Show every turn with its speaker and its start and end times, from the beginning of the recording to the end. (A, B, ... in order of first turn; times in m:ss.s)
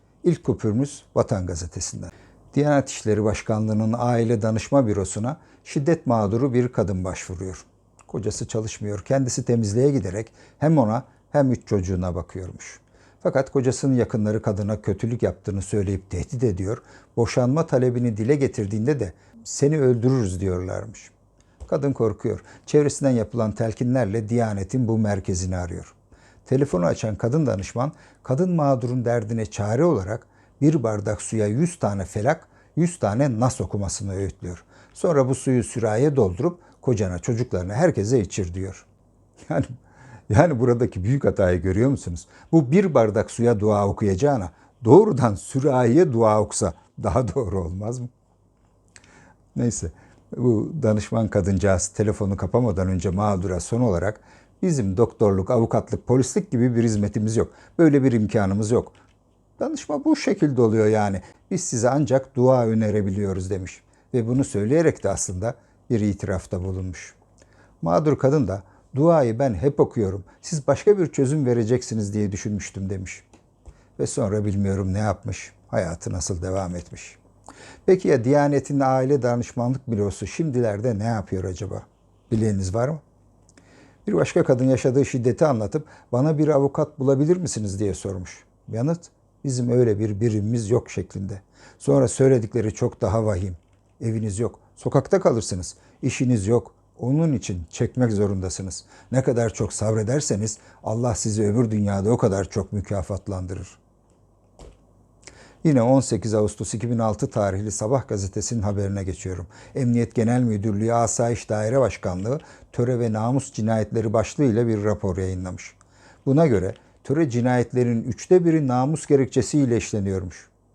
0:00.2-0:21.1 A
0:21.7-0:26.0 A
0:26.4-0:38.8 A
0:39.5-0:39.7 A
0:40.3-0:48.1 A
0:49.6-0:59.0 A
0:59.6-1:07.2 A
1:07.8-1:13.2 A
1:14.0-1:17.2 A
1:17.9-1:23.0 A
1:24.0-1:43.8 A
1:45.6-2:00.5 A